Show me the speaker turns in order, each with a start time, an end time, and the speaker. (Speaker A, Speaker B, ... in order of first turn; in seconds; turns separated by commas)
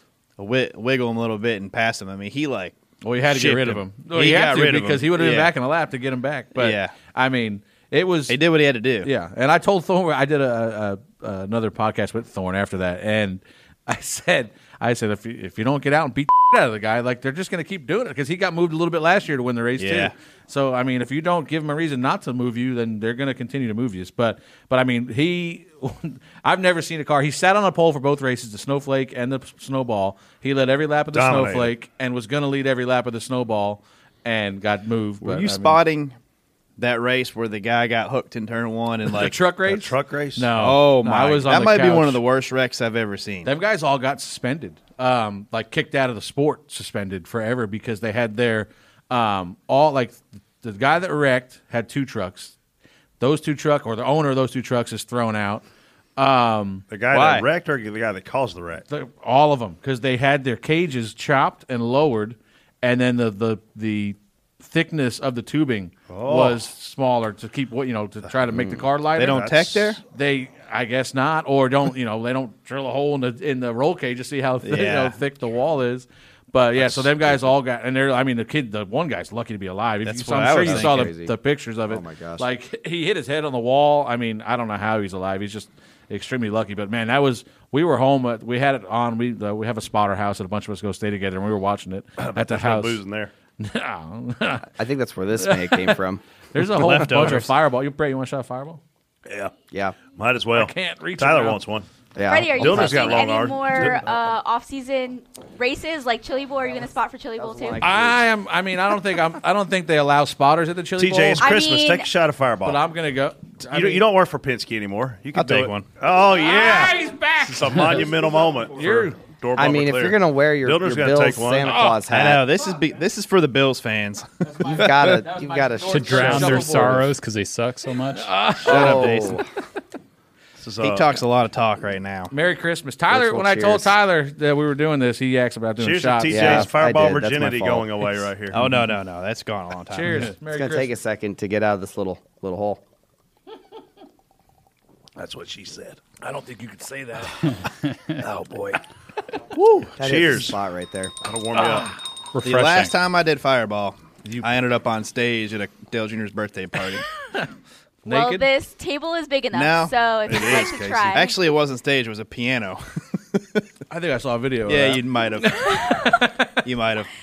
Speaker A: 0.4-2.8, Speaker B: 3.0-8.4, Speaker A: 3.3-5.5, Speaker A: 6.5-7.0, Speaker A: 8.3-9.1, Speaker B: 9.0-35.8, Speaker A: 19.8-20.1, Speaker C: 31.1-31.7, Speaker A: 35.2-36.1, Speaker A: 36.8-39.4, Speaker B: 39.1-42.2, Speaker C: 39.7-40.5, Speaker A: 40.5-43.5, Speaker B: 43.5-52.5, Speaker B: 53.2-55.6, Speaker B: 56.2-56.9, Speaker C: 56.9-58.9, Speaker A: 57.1-57.5, Speaker B: 58.9-69.5, Speaker C: 66.1-66.6, Speaker C: 68.3-70.0, Speaker A: 69.1-70.0, Speaker B: 70.0-93.0, Speaker A: 74.6-75.2, Speaker A: 80.1-81.1, Speaker D: 80.6-81.3, Speaker D: 81.9-82.5, Speaker C: 92.2-93.3, Speaker B: 93.6-94.7, Speaker D: 94.7-96.2, Speaker B: 95.4-96.0, Speaker B: 96.5-98.8, Speaker C: 96.8-97.5, Speaker C: 99.3-99.5, Speaker D: 99.7-100.0, Speaker C: 100.1-101.9, Speaker B: 100.5-101.6, Speaker D: 102.2-103.3, Speaker E: 102.3-107.8, Speaker C: 102.5-104.1, Speaker D: 107.4-108.2, Speaker B: 107.8-111.5, Speaker C: 111.0-112.8, Speaker E: 111.4-112.1, Speaker B: 112.6-114.0, Speaker C: 113.7-121.8, Speaker A: 115.4-115.9, Speaker B: 116.3-119.2, Speaker D: 119.5-122.5, Speaker B: 121.6-122.0, Speaker A: 122.1-125.2, Speaker D: 124.7-127.0, Speaker B: 125.1-127.0, Speaker F: 125.9-128.3, Speaker B: 128.1-129.4, Speaker A: 128.6-129.4, Speaker D: 128.7-129.4, Speaker C: 130.6-131.2, Speaker A: 130.8-132.3, Speaker B: 132.3-136.7, Speaker D: 133.1-133.9, Speaker C: 135.8-138.8, Speaker D: 136.3-137.9, Speaker A: 138.5-140.3, Speaker B: 139.9-140.9, Speaker D: 140.5-142.8, Speaker C: 145.2-146.2, Speaker B: 146.2-147.5, Speaker C: 148.2-148.8, Speaker C: 149.5-150.6, Speaker D: 150.0-151.2, Speaker C: 151.2-151.9, Speaker B: 151.6-151.9, Speaker F: 152.3-152.9, Speaker A: 152.4-157.0, Speaker B: 158.0-158.4, Speaker E: 158.1-161.4, Speaker A: 159.5-163.6, Speaker C: 160.3-161.1, Speaker B: 163.9-166.4, Speaker A: 164.7-165.6, Speaker A: 166.6-167.1